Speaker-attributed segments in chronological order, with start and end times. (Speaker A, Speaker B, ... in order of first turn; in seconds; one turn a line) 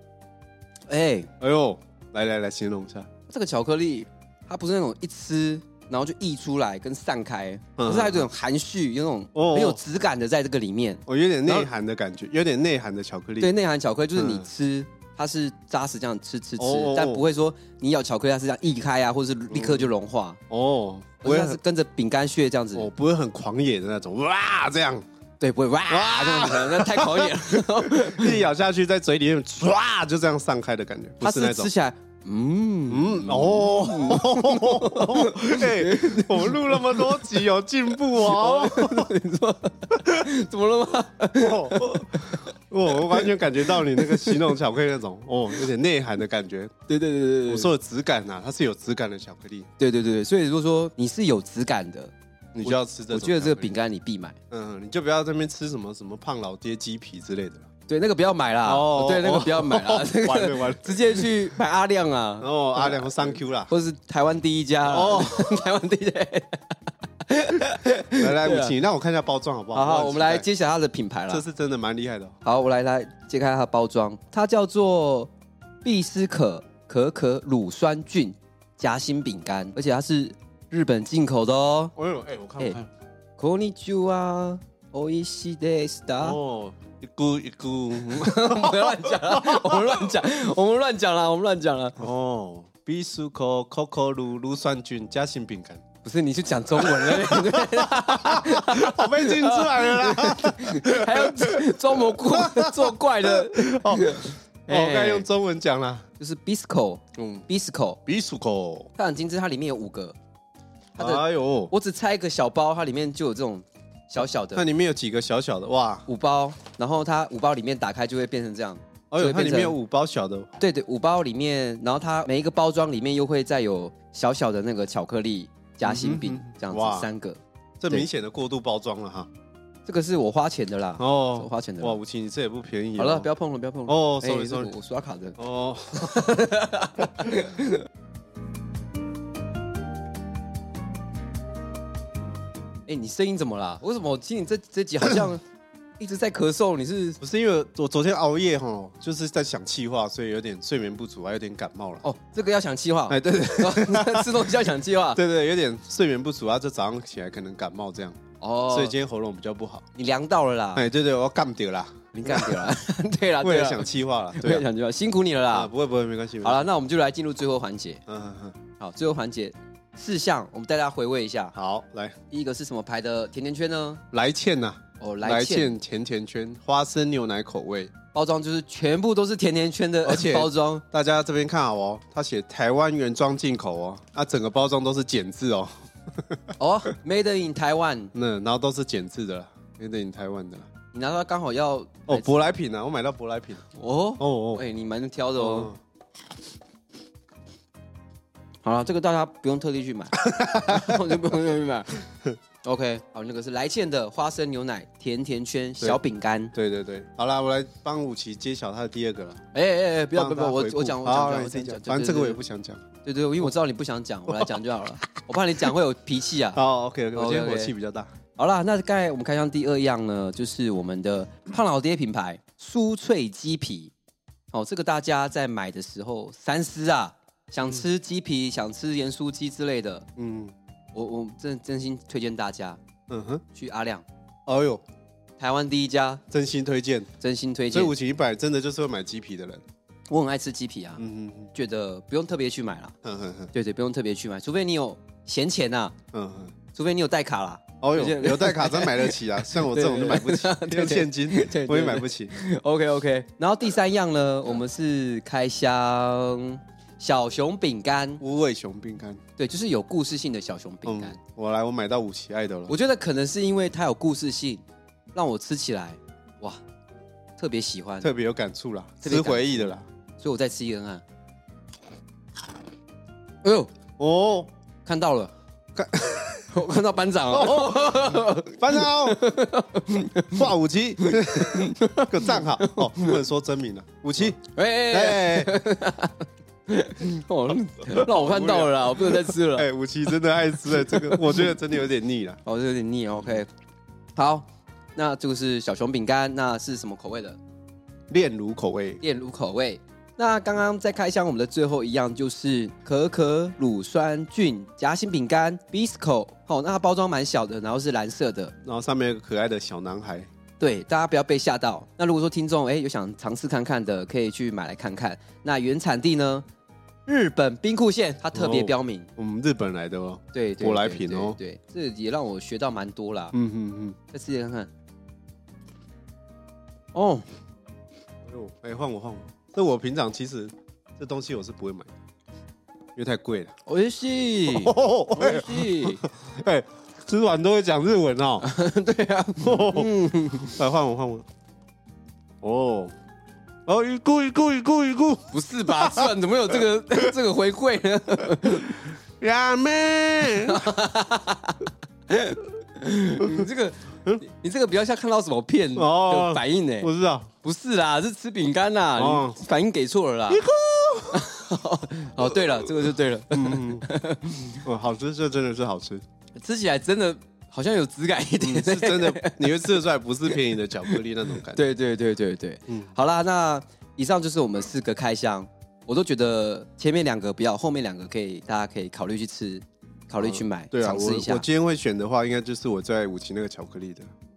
Speaker A: 0.9-1.3
Speaker B: 1.4-3.1
Speaker A: 3.3-11.7
Speaker B: 7.8-8.3
Speaker B: 9.3-9.8
Speaker B: 11.1-13.5
Speaker A: 13.4-20.4
Speaker B: 14.2-14.5
Speaker B: 16.6-17.2
Speaker B: 19.5-19.9
Speaker B: 20.5-21.6
Speaker A: 21.2-22.9
Speaker B: 22.7-25.1
Speaker A: 25.4-28.4
Speaker B: 25.9-31.7
Speaker A: 31.2-37.4
Speaker B: 32.9-39.1
Speaker A: 38.2-44.6
Speaker B: 41.4-46.7
Speaker A: 46.9-47.7
Speaker B: 47.5-49.7
Speaker A: 49.8-54.4
Speaker B: 52.5-53.8
Speaker B: 54.5-57.7
Speaker A: 57.9-66.7
Speaker B: 58.6-61.4
Speaker B: 62.4-63.7
Speaker B: 64.9-65.7
Speaker A: 67.3-68.7
Speaker B: 68.2-70.5
Speaker A: 69.7-71.4
Speaker B: 71.3-72.4
Speaker A: 72.4-75.3
Speaker A: 75.8-81.9
Speaker B: 82.0-82.9
Speaker A: 83.4-86.4
Speaker B: 86.2-90.2
Speaker A: 88.1-92.0
Speaker B: 92.0-95.8
Speaker A: 96.0-105.3
Speaker B: 96.7-106.0
Speaker A: 106.2-108.0
Speaker B: 107.2-107.5
Speaker B: 108.1-108.9
Speaker A: 109.0-110.2
Speaker A: 111.0-114.6
Speaker B: 111.0-111.7
Speaker B: 114.5-116.1
Speaker A: 116.1-119.8
Speaker B: 119.1-120.5
Speaker A: 120.6-128.1
Speaker B: 125.8-127.1
Speaker B: 127.8-129.3
Speaker A: 129.9-132.0
Speaker B: 131.0-133.3
Speaker A: 133.0-135.4
Speaker B: 133.9-134.7
Speaker B: 135.4-137.4
Speaker A: 135.9-137.8
Speaker A: 142.9-145.4
Speaker A: 146.0-147.2
Speaker B: 147.2-152.0
Speaker A: 152.0-155.2
Speaker B: 153.1-154.6
Speaker B: 155.1-159.8
Speaker A: 158.4-159.0
Speaker A: 159.9-160.8
Speaker B: 160.8-162.7
Speaker A: 162.1-165.7
Speaker B: 163.4-164.7
Speaker B: 165.5-166.7
Speaker A: 166.4-168.0
Speaker B: 168.1-168.6
Speaker A: 168.8-171.6
Speaker B: 171.5-172.2
Speaker A: 172.3-174.0
Speaker B: 174.1-177.9
Speaker A: 175.0-175.8
Speaker A: 178.1-180.8
Speaker B: 180.0-186.5
Speaker A: 186.6-188.1
Speaker B: 188.1-190.7
Speaker A: 190.9-192.3
Speaker B: 192.1-193.7
Speaker A: 193.7-195.7
Speaker B: 194.2-194.6
Speaker B: 195.4-195.8
Speaker A: 198.6-202.0
Speaker B: 200.2-201.2
Speaker A: 202.6-206.5
Speaker B: 206.5-209.4
Speaker A: 209.5-212.4
Speaker B: 210.1-212.9
Speaker A: 213.0-216.6
Speaker B: 214.3-214.6
Speaker B: 216.5-218.1
Speaker A: 217.2-217.7
Speaker A: 218.4-223.9
Speaker A: 224.5-230.1
Speaker B: 230.2-230.5
Speaker A: 230.9-232.8
Speaker B: 233.1-233.4
Speaker A: 233.5-234.1
Speaker B: 234.5-234.8
Speaker A: 235.4-236.2
Speaker B: 236.3-237.1
Speaker A: 237.2-237.9
Speaker B: 237.7-239.6
Speaker A: 240.1-241.0
Speaker B: 241.0-241.5
Speaker A: 241.5-242.9
Speaker B: 243.0-243.5
Speaker A: 243.5-245.9
Speaker B: 246.1-246.6
Speaker A: 246.7-258.2
Speaker B: 247.8-252.3
Speaker B: 258.2-259.2
Speaker A: 259.4-261.2
Speaker B: 260.9-262.8
Speaker A: 262.7-264.6
Speaker A: 265.1-266.6
Speaker A: 267.4-268.1
Speaker B: 268.0-269.8
Speaker A: 269.0-271.0
Speaker A: 273.4-273.7
Speaker B: 274.0-274.5
Speaker A: 274.9-275.3
Speaker B: 275.8-276.6
Speaker A: 276.5-280.5
Speaker B: 277.3-279.2
Speaker B: 280.3-285.5
Speaker A: 281.0-283.2
Speaker A: 284.4-289.7
Speaker B: 287.9-292.4
Speaker A: 290.7-291.5
Speaker A: 292.4-293.5
Speaker A: 294.2-294.4
Speaker A: 295.0-297.4
Speaker B: 298.1-299.0
Speaker A: 299.0-308.6
Speaker B: 308.6-310.3
Speaker A: 310.6-316.4
Speaker A: 317.1-319.1
Speaker B: 318.3-321.4
Speaker A: 320.3-323.4
Speaker B: 323.3-324.0
Speaker A: 324.1-324.7
Speaker A: 326.9-327.3
Speaker B: 328.3-331.9
Speaker B: 333.0-333.5
Speaker A: 333.7-336.0
Speaker B: 334.5-338.5
Speaker A: 338.4-340.6
Speaker B: 339.4-341.3
Speaker B: 342.4-342.9
Speaker B: 343.7-346.1
Speaker A: 345.3-348.8
Speaker B: 349.2-350.7
Speaker A: 350.4-356.9
Speaker B: 353.2-353.5
Speaker B: 355.8-357.3
Speaker A: 357.4-360.5
Speaker B: 359.0-359.4
Speaker B: 360.3-361.3
Speaker A: 361.1-364.6
Speaker B: 362.2-363.9
Speaker B: 364.6-366.0
Speaker A: 366.4-381.4
Speaker B: 368.4-371.6
Speaker B: 372.7-372.9
Speaker B: 380.2-384.1